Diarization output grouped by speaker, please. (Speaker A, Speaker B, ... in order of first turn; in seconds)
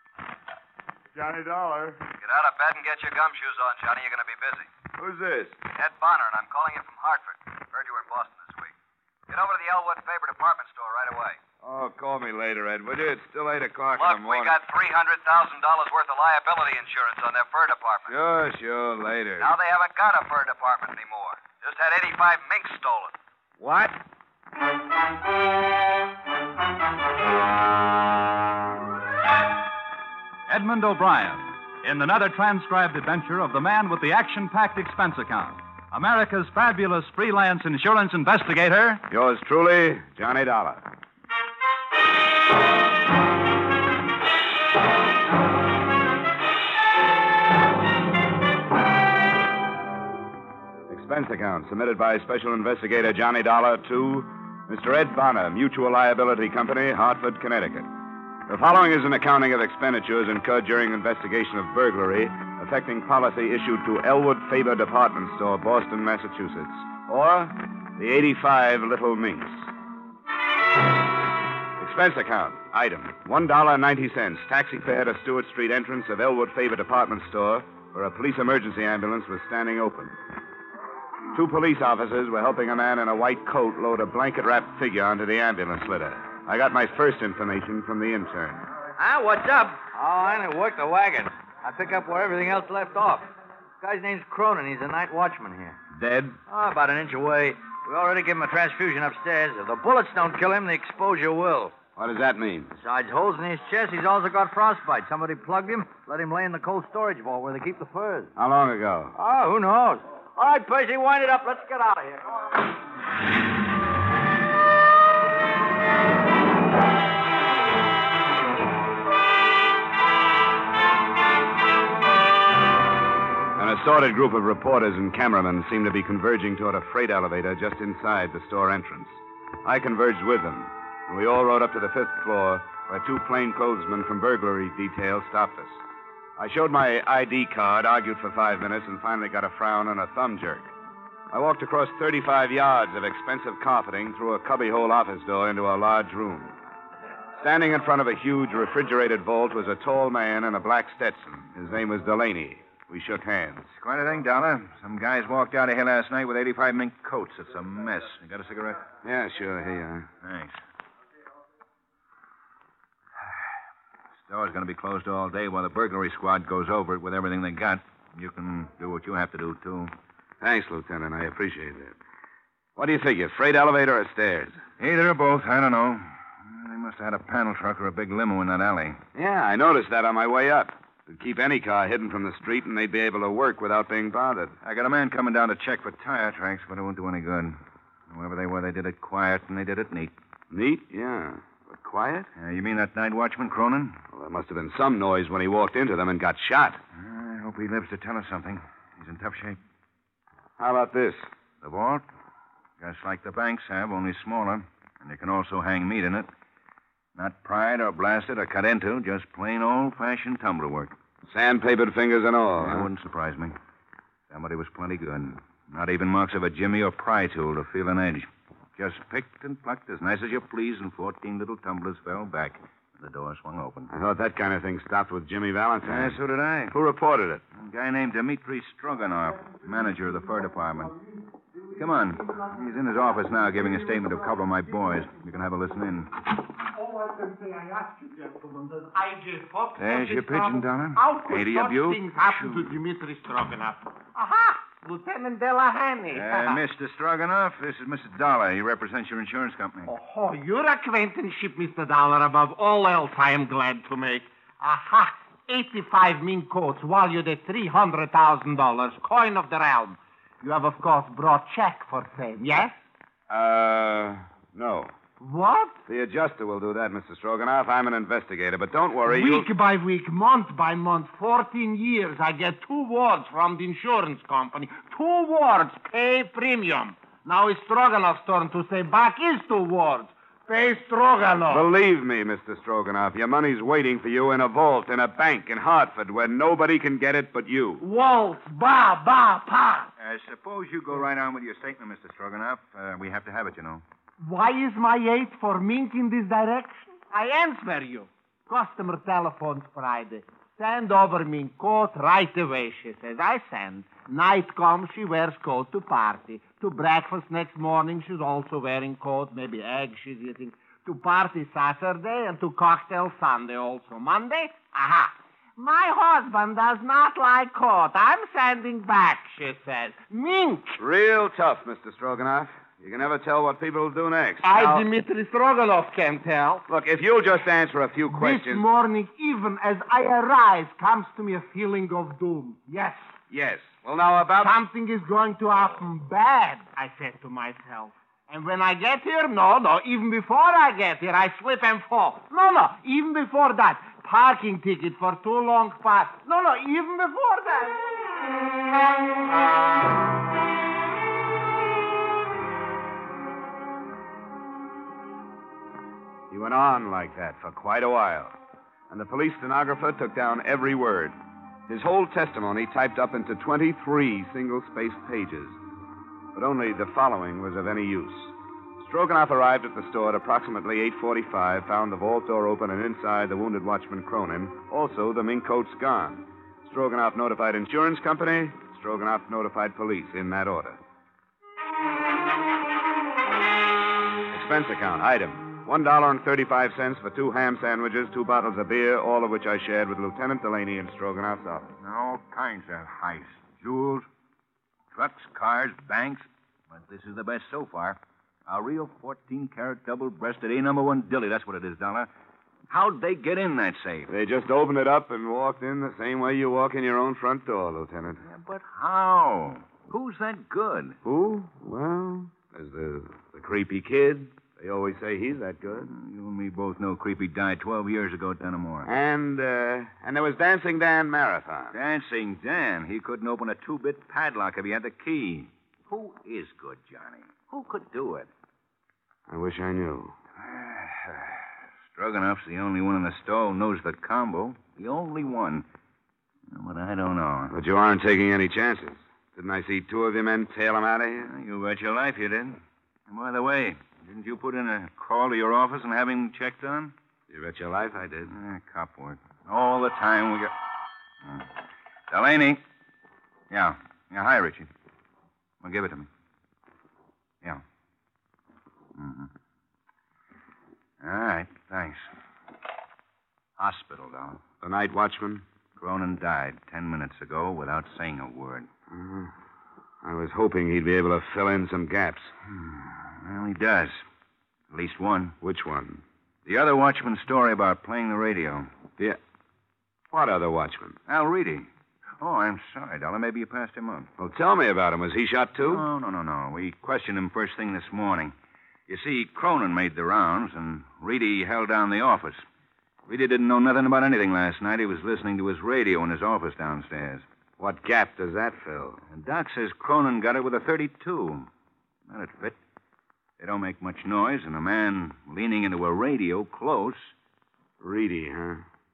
Speaker A: 1.1-2.0, 5.0-5.6, 11.6-14.6, 18.1-19.6, 23.6-24.0, 39.1-40.9, 50.9-57.9, 58.5-69.7, 71.8-80.1, 81.3-88.6, 95.9-96.4, 102.0-102.7, 108.4-109.1, 123.5-135.8, 136.4-140.7, 141.3-146.5, 147.4-153.7, 159.0-160.1, 170.4-172.0, 172.8-174.6, 179.2-184.6, 190.5-192.3, 194.1-196.8, 200.6-201.3, 211.3-212.9, 223.9-226.2, 226.7-227.4, 263.3-264.9, 265.9-269.5, 281.5-287.8, 320.8-324.9, 326.7-328.6, 333.3-334.6, 356.3-358.4, 358.9-361.1, 361.7-365.6, 366.4-380.8, 384.3-391.7, 404.1-408.2, 411.0-415.9, 418.9-421.8, 429.3-430.1, 437.5-441.3, 447.3-448.3, 464.6-465.4, 468.9-469.3, 470.0-472.3, 475.4-476.0, 480.1-481.0, 484.2-485.8, 497.6-499.0, 507.8-508.6
Speaker B: 2.2-4.7, 5.7-8.7, 9.3-11.4, 14.0-18.1, 19.4-23.1
Speaker C: 30.5-39.0
Speaker D: 89.0-93.3, 93.8-95.8, 96.5-101.7, 102.8-108.3, 109.1-112.2
Speaker E: 153.8-158.8, 160.2-160.6, 164.3-169.9, 174.8-179.0, 184.6-187.6, 188.1-190.1, 192.4-194.0, 196.9-199.6, 201.6-202.0, 202.8-206.3, 207.2-210.9, 212.6-213.6, 214.3-223.9, 225.8-226.7, 227.6-230.9, 231.8-236.3, 239.8-242.7, 246.1-249.9, 290.0-293.8, 391.8-394.1, 394.9-402.1, 402.7-404.1, 408.2-410.9, 415.8-418.9, 421.7-428.3, 430.4-435.6, 436.5-437.5, 441.3-446.9, 448.3-450.5, 451.2-451.5, 452.1-452.6, 453.5-454.7, 455.6-456.1, 458.9-459.3, 461.0-462.1, 463.6-464.4, 465.8-468.7, 472.5-474.0, 474.7-475.4, 476.4-478.7, 481.1-481.7, 482.2-484.1, 485.6-488.3, 488.9-492.4, 493.1-497.2, 499.1-501.5, 502.1-502.6, 503.4-507.1
Speaker F: 236.7-246.6, 249.8-262.8, 265.2-265.8, 269.1-281.7, 287.8-289.9, 294.2-320.8, 324.4-326.6, 328.1-333.1, 334.4-347.8